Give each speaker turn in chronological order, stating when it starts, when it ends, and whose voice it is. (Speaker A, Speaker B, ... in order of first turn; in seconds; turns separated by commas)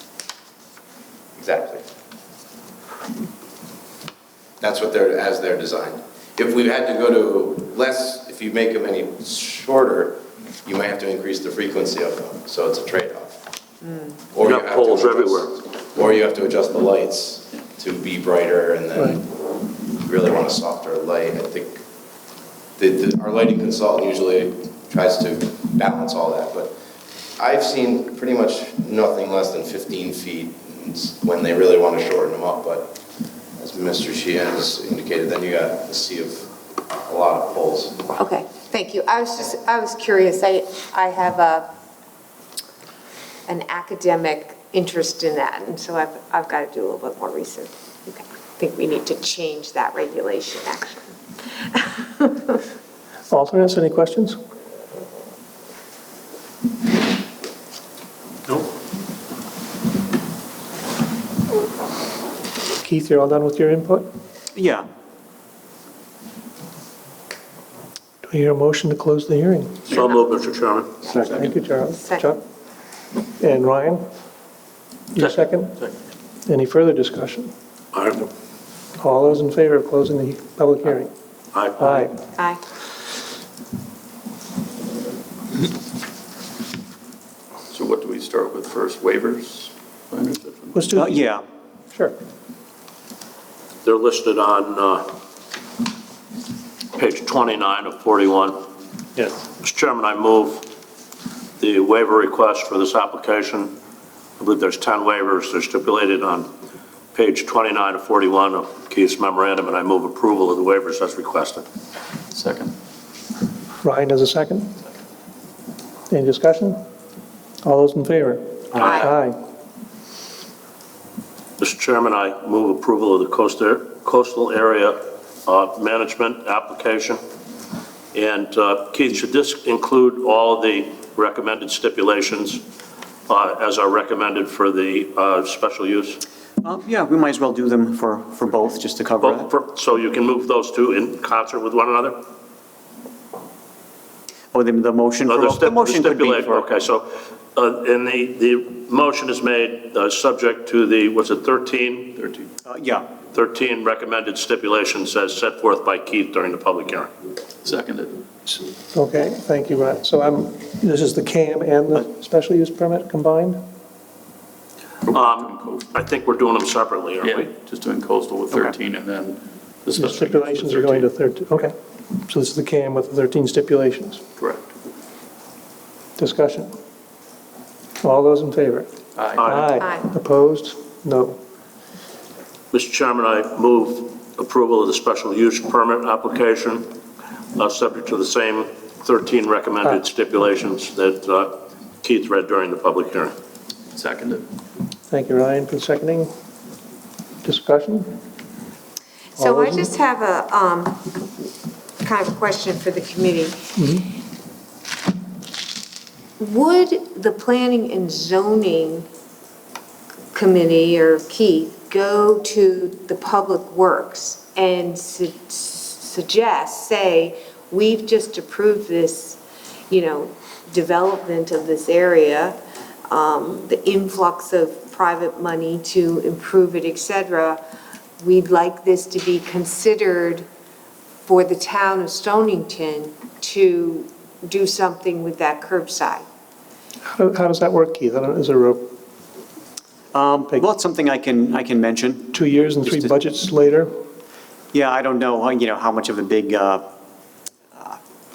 Speaker A: 1.4-1.9, Speaker A: 4.6-13.4, Speaker A: 14.3-19.3, Speaker B: 14.4-15.6, Speaker A: 19.9-21.8, Speaker A: 22.8-26.8, Speaker A: 27.4-33.0, Speaker A: 33.6-38.1, Speaker C: 38.2-41.7, Speaker C: 43.5-51.1, Speaker C: 51.7-52.6, Speaker D: 53.3-54.4, Speaker D: 62.8-64.1, Speaker E: 64.5-64.8, Speaker D: 68.2-69.9, Speaker B: 69.9-70.9, Speaker D: 71.0-72.4, Speaker C: 71.1-72.3, Speaker D: 73.4-74.0, Speaker D: 75.1-75.8, Speaker B: 75.2-75.9, Speaker D: 76.5-77.5, Speaker B: 77.9-78.3, Speaker D: 79.0-81.1, Speaker B: 81.5-82.1, Speaker D: 81.8-82.1, Speaker C: 82.3-82.6, Speaker F: 87.7-90.9, Speaker D: 90.8-91.2, Speaker E: 90.9-91.4, Speaker B: 93.8-95.2, Speaker B: 96.9-98.6, Speaker B: 99.5-100.7, Speaker B: 101.6-103.7, Speaker B: 104.4-106.5, Speaker B: 107.1-111.6, Speaker F: 112.3-112.7, Speaker D: 113.8-114.7, Speaker D: 116.1-116.8, Speaker D: 117.6-119.4, Speaker B: 121.6-127.2, Speaker B: 128.1-132.6, Speaker B: 133.3-136.2, Speaker E: 136.6-139.5, Speaker B: 139.2-142.2, Speaker E: 144.5-146.7, Speaker B: 145.3-152.2, Speaker F: 152.2-152.5, Speaker E: 152.7-153.1, Speaker B: 153.3-157.1, Speaker F: 157.6-158.2, Speaker D: 158.9-163.6, Speaker F: 165.1-165.9, Speaker B: 165.1-167.5, Speaker F: 167.2-171.1, Speaker D: 170.0-174.2, Speaker F: 174.4-174.7, Speaker D: 176.2-176.7, Speaker D: 178.0-178.9, Speaker F: 179.2-179.5, Speaker B: 179.4-179.7, Speaker D: 179.4-181.4, Speaker C: 179.8-180.1, Speaker B: 182.7-186.9, Speaker B: 187.6-193.3, Speaker F: 193.9-194.5, Speaker D: 195.1-196.3, Speaker D: 197.4-198.1, Speaker D: 199.4-199.9, Speaker C: 199.4-201.3, Speaker C: 202.0-203.7, Speaker D: 203.8-204.1, Speaker C: 206.4-209.1, Speaker C: 210.3-222.6, Speaker C: 223.1-227.6, Speaker C: 228.2-230.4, Speaker C: 231.3-236.2, Speaker D: 237.1-238.8, Speaker E: 240.1-243.2, Speaker D: 242.3-243.9, Speaker E: 244.7-246.8